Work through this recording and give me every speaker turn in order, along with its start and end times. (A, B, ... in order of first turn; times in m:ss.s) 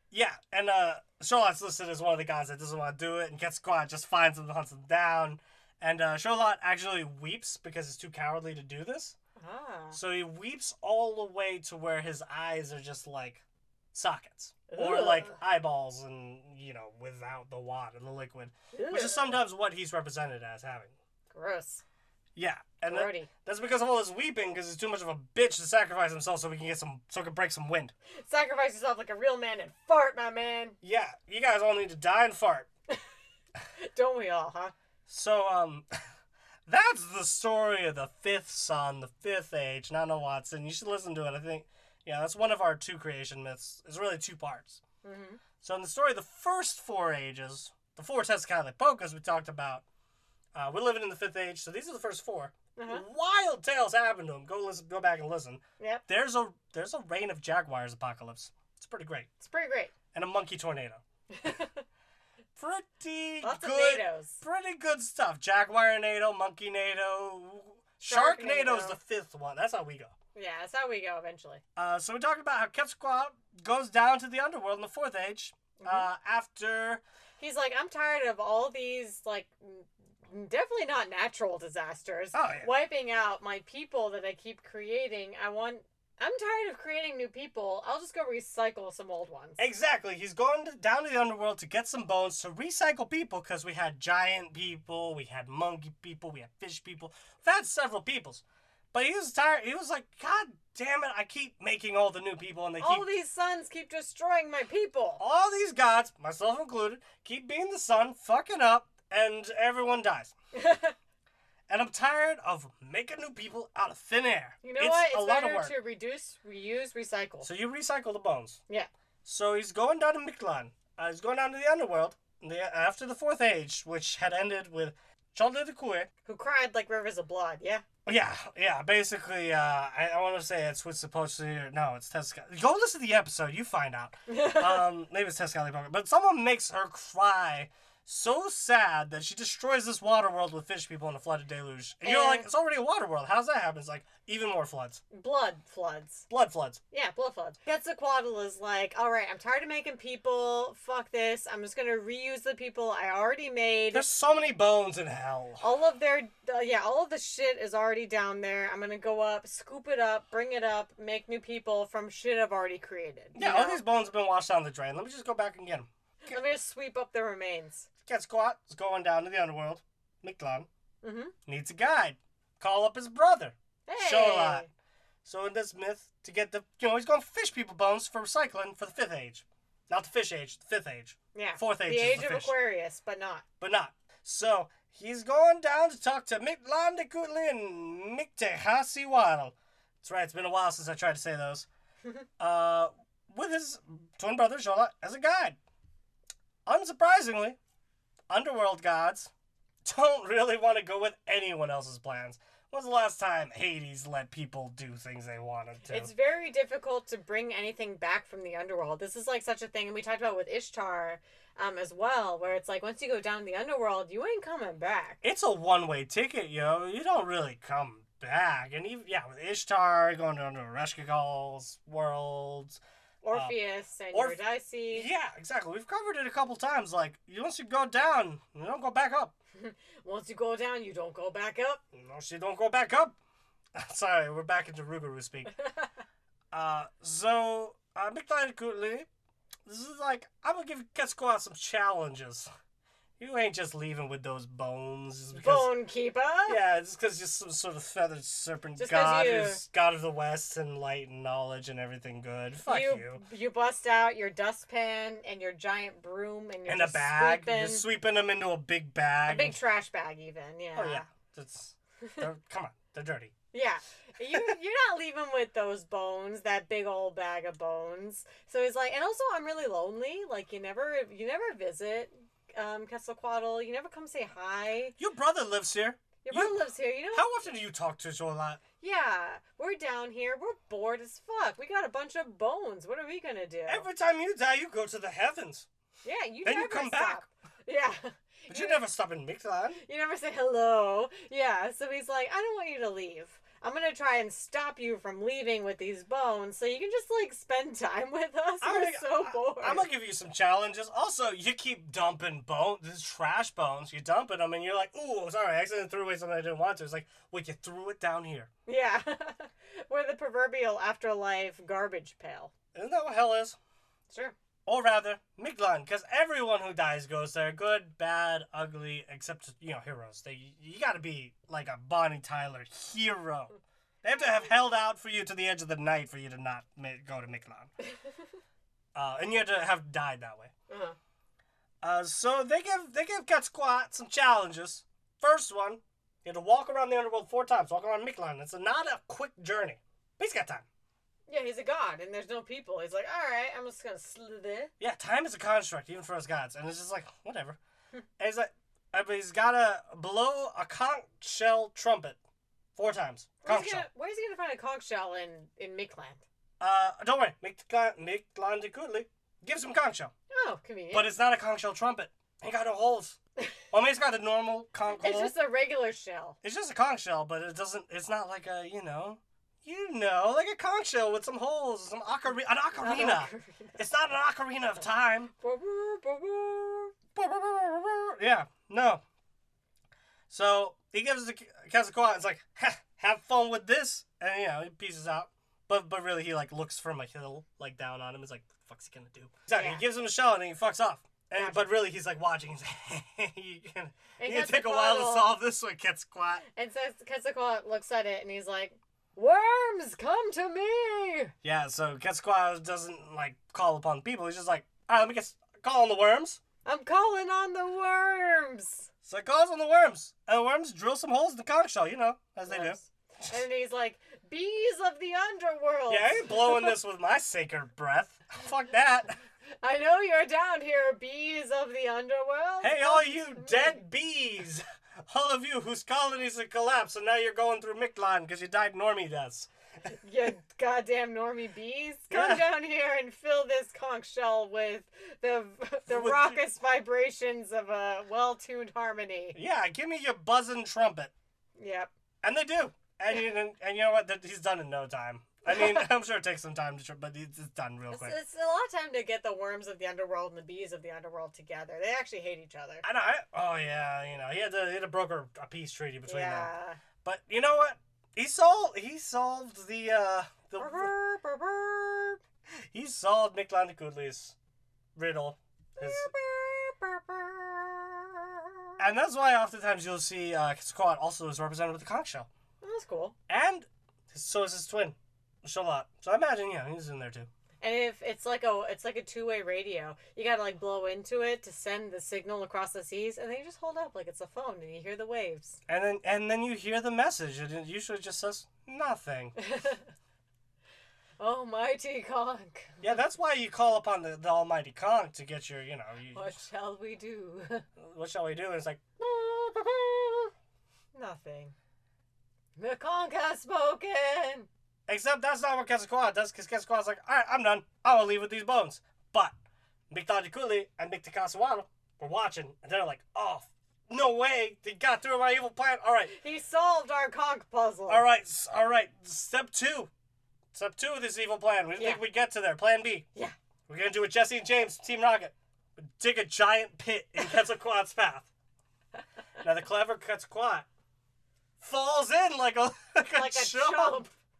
0:00.1-0:09.2 A
0:09.4-0:10.0 B
0:09.9-0:20.9 A
0:14.7-0:15.4 B
0:18.7-0:19.4 B
0:21.3-0:21.8 B
0:22.4-0:27.9 A
0:22.9-0:23.3 B
0:28.1-0:30.8 B
0:30.8-0:32.7 A
0:33.8-0:34.7 B
0:35.1-0:35.9 A
0:36.7-0:44.8 A
0:45.0-0:45.4 B
0:45.6-0:49.8 A
0:50.5-0:59.3 A
0:52.8-0:53.0 B
0:59.4-0:59.9 B
1:00.1-1:01.0 A
1:01.3-1:01.8 B
1:02.6-1:10.1 A
1:03.4-1:04.4 B
1:08.0-1:09.0 B
1:10.3-1:11.6 B
1:11.8-1:17.0 A
1:15.8-1:16.1 B
1:17.4-1:29.6 B
1:22.3-1:22.7 A
1:29.6-1:43.1 A
1:42.8-1:45.2 B
1:45.2-1:50.3 A
1:50.5-1:50.9 B
1:51.7-1:55.8 A
1:54.6-1:57.5 B
1:57.4-1:58.6 A
1:59.2-2:06.1 A
2:06.2-2:07.8 B
2:08.0-2:25.0 A
2:14.3-2:14.9 B
2:22.0-2:22.5 B
2:25.1-2:26.2 B
2:26.3-2:26.8 A
2:26.9-2:34.0 B
2:33.9-2:35.6 A
2:35.6-2:43.8 B
2:43.3-2:46.4 A
2:46.3-2:47.9 B
2:48.0-2:50.7 A
2:51.0-2:51.3 B
2:51.4-2:54.7 A
2:53.8-2:54.7 B
2:55.2-3:02.5 A
3:01.3-3:03.4 B
3:03.6-3:11.7 A
3:12.4-3:15.6 A
3:16.6-3:17.6 A
3:18.3-3:19.3 A
3:19.8-3:26.1 A
3:25.8-3:35.2 B
3:35.2-3:42.8 A
3:43.2-3:45.1 B
3:44.1-3:44.4 A
3:44.9-3:49.3 A
3:49.6-3:51.8 B
3:51.9-3:53.2 A
3:53.8-3:55.5 A
3:55.6-3:55.9 B
3:56.5-3:59.1 A
3:59.6-4:02.5 A
4:03.2-4:05.7 A
4:05.3-4:06.6 B
4:06.5-4:13.2 A
4:08.8-4:09.6 B
4:12.6-4:17.8 B
4:16.7-4:19.6 A
4:19.3-4:21.1 B
4:20.8-4:23.3 A
4:23.5-4:35.0 B
4:35.0-4:36.6 A
4:36.2-4:37.3 B
4:37.1-4:38.6 A
4:38.8-4:43.9 B
4:43.7-4:45.7 A
4:46.0-4:48.8 B
4:46.4-4:47.2 A
4:48.5-4:49.8 A
4:49.8-4:59.8 B
4:58.6-5:08.5 A
5:08.7-5:12.5 B
5:12.7-5:13.6 A
5:14.6-5:27.7 A
5:28.9-5:30.5 A
5:30.7-5:31.0 B
5:31.8-5:40.6 A
5:41.3-5:44.7 B
5:44.8-5:47.6 A
5:48.2-5:52.2 A
5:52.7-5:53.9 A
5:53.4-5:56.2 B
5:56.6-6:00.1 A
6:00.3-6:01.1 B
6:00.9-6:03.2 A
6:03.7-6:05.3 A
6:05.0-6:06.4 B
6:06.4-6:15.3 A
6:12.8-6:13.8 B
6:15.4-6:16.9 B
6:17.1-6:19.0 A
6:20.3-6:36.4 A
6:29.5-6:29.8 B
6:31.3-6:31.6 B
6:34.2-6:35.3 B
6:36.5-6:41.3 B
6:41.4-6:46.4 A
6:46.6-6:48.9 B
6:49.0-6:53.3 A
6:52.5-6:56.8 B
6:55.9-6:59.2 A
6:59.6-7:03.8 B
7:02.6-7:09.5 A
7:09.9-7:19.4 B
7:12.1-7:12.4 A
7:15.9-7:16.4 A
7:19.3-7:21.1 A
7:21.6-7:21.9 B
7:22.2-7:28.2 A
7:25.4-7:25.9 B
7:27.9-7:32.8 B
7:32.8-7:36.5 A
7:36.1-7:36.8 B
7:37.0-7:40.9 A
7:40.6-7:42.2 B
7:42.7-7:44.3 A
7:45.0-7:46.1 A
7:45.8-7:48.8 B
7:48.8-7:52.3 A
7:52.6-7:53.1 B
7:53.3-7:57.3 A
7:57.6-8:05.6 B
8:05.7-8:09.4 A
8:09.4-8:09.9 B
8:11.2-8:12.9 B
8:12.8-8:16.3 A
8:16.1-8:17.6 B
8:17.8-8:19.0 A
8:19.0-8:20.3 B
8:20.9-8:21.5 B
8:22.6-8:24.5 B
8:24.9-8:29.3 A
8:29.9-8:36.1 A
8:36.1-8:38.0 B
8:37.9-8:39.9 A
8:40.5-8:43.0 A
8:41.8-8:42.0 B
8:43.7-8:48.3 A
8:49.4-8:50.7 A
8:51.6-8:54.1 A
8:53.1-8:54.1 B